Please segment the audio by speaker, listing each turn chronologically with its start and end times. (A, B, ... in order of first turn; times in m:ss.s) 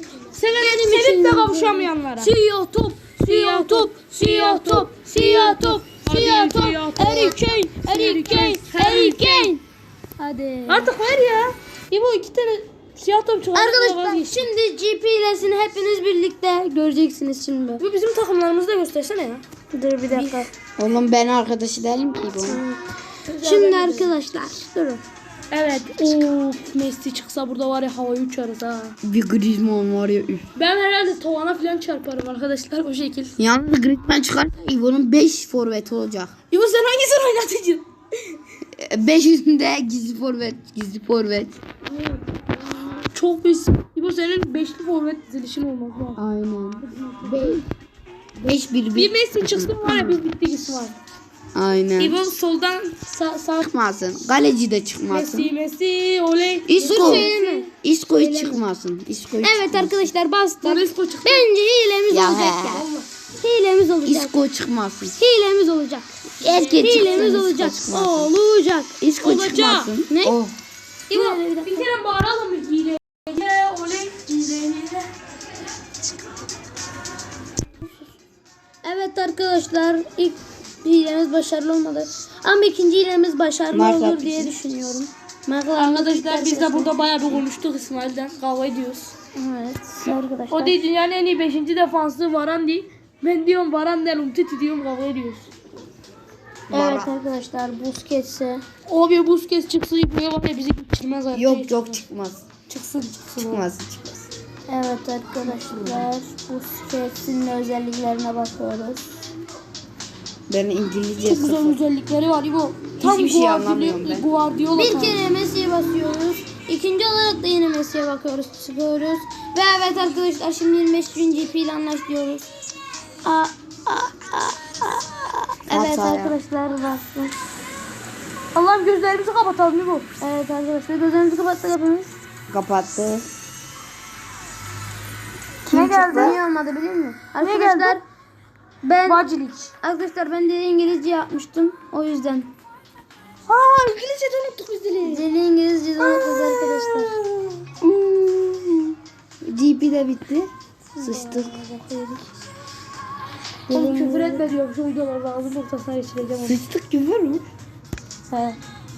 0:00.3-0:02.3 A
0:00.5-0:09.6 B
0:03.2-0:09.5 A
0:10.2-0:10.9 B
0:10.7-0:14.5 A
0:13.5-0:17.8 B
0:17.8-0:19.4 A
0:19.7-0:20.5 B
0:20.1-0:22.6 C
0:22.4-0:22.8 B
0:23.3-0:24.1 A
0:23.4-0:25.0 B
0:25.5-0:29.0 A
0:29.0-0:30.4 C
0:30.6-0:33.3 A
0:33.4-0:36.3 C
0:36.5-0:38.4 A
0:38.7-0:41.6 C
0:43.0-0:46.2 A
0:46.2-0:47.7 C
0:46.9-0:47.6 A
0:48.4-0:50.2 C
0:49.0-0:51.0 A
0:51.5-0:52.2 C
0:52.0-0:53.7 A
0:53.6-0:55.5 C
0:55.1-0:57.7 A
0:56.7-1:00.1 C
0:56.8-0:58.6 B
0:59.4-1:02.8 B
1:00.6-1:01.5 A
1:02.1-1:02.9 C
1:02.6-1:03.1 A
1:03.4-1:04.4 B
1:04.0-1:05.2 C
1:05.2-1:09.0 B
1:06.4-1:08.3 C
1:06.4-1:07.4 A
1:09.0-1:10.6 C
1:09.2-1:09.9 A
1:10.1-1:10.4 B
1:11.1-1:15.1 A
1:11.1-1:11.9 B
1:18.8-1:26.9 B
1:23.7-1:24.5 C
1:25.8-1:29.1 A
1:29.4-1:30.8 B
1:30.1-1:35.5 A
1:36.7-1:37.1 C
1:36.7-1:38.6 B
1:38.9-1:42.0 A
1:41.3-1:42.4 C
1:42.7-1:43.7 A
1:43.4-1:44.3 C
1:44.7-1:49.1 B
1:45.5-1:46.1 C
1:50.5-1:51.8 C
1:51.2-1:55.2 A
1:53.0-1:54.3 C
1:54.8-2:02.5 B
2:03.2-2:07.4 B
2:05.7-2:06.3 C
2:08.5-2:10.1 A
2:10.2-2:12.1 B
2:12.5-2:13.3 C
2:15.6-2:16.4 C
2:15.7-2:18.0 B
2:17.4-2:18.0 A
2:18.8-2:19.3 B
2:19.0-2:19.7 A
2:19.8-2:22.5 B
2:23.5-2:25.3 A
2:25.0-2:27.2 B
2:26.0-2:27.6 A
2:27.8-2:31.6 C
2:31.0-2:32.2 B
2:31.4-2:32.2 A
2:33.7-2:34.5 B
2:33.7-2:36.6 A
2:36.4-2:37.5 C
2:38.3-2:38.6 B